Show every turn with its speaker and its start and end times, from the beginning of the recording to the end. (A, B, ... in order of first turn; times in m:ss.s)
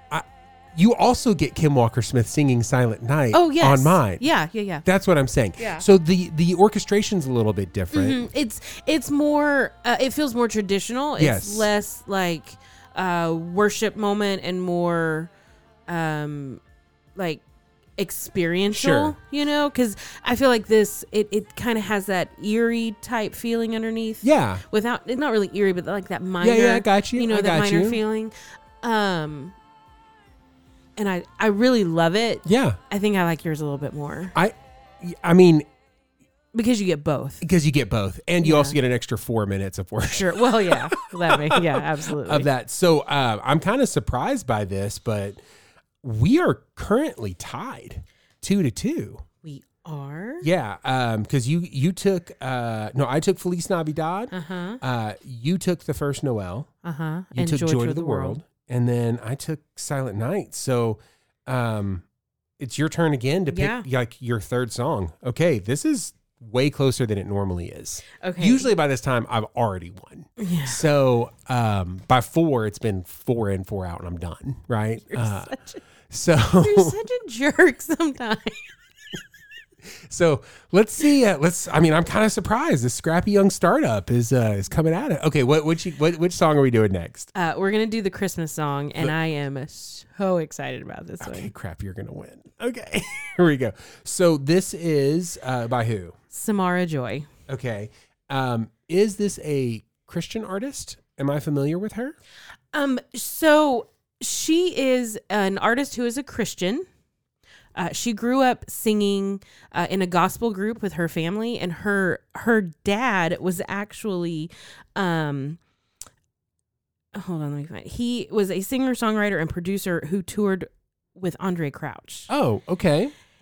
0:00.1-0:04.3 A
0:03.3-0:04.8 B
0:04.8-0:08.3 A
0:05.6-0:05.8 B
0:07.9-0:15.3 B
0:11.2-0:11.7 A
0:15.9-0:16.6 B
0:17.2-0:17.4 B
0:18.0-0:29.6 B
0:18.7-0:19.2 A
0:24.2-0:24.6 A
0:26.4-0:28.0 A
0:31.0-0:34.4 B
0:32.4-0:32.8 A
0:34.4-0:35.7 A
0:36.5-0:37.4 B
0:37.4-0:45.4 A
0:38.4-0:38.8 B
0:40.0-0:42.5 B
0:46.0-0:49.2 A
0:49.4-0:50.5 B
0:50.4-0:56.7 A
0:54.3-0:54.8 B
0:56.8-0:58.4 B
0:57.3-1:02.0 A
1:02.6-1:15.6 A
1:03.5-1:03.8 B
1:08.2-1:08.7 B
1:10.4-1:10.8 B
1:15.1-1:15.8 B
1:16.1-1:17.0 A
1:16.6-1:18.7 B
1:20.1-1:27.3 A
1:27.4-1:31.5 B
1:31.2-1:36.2 A
1:36.3-1:37.3 B
1:37.5-1:42.2 A
1:42.7-1:46.9 B
1:47.8-1:55.6 B
1:57.1-2:02.3 B
2:02.3-2:03.1 A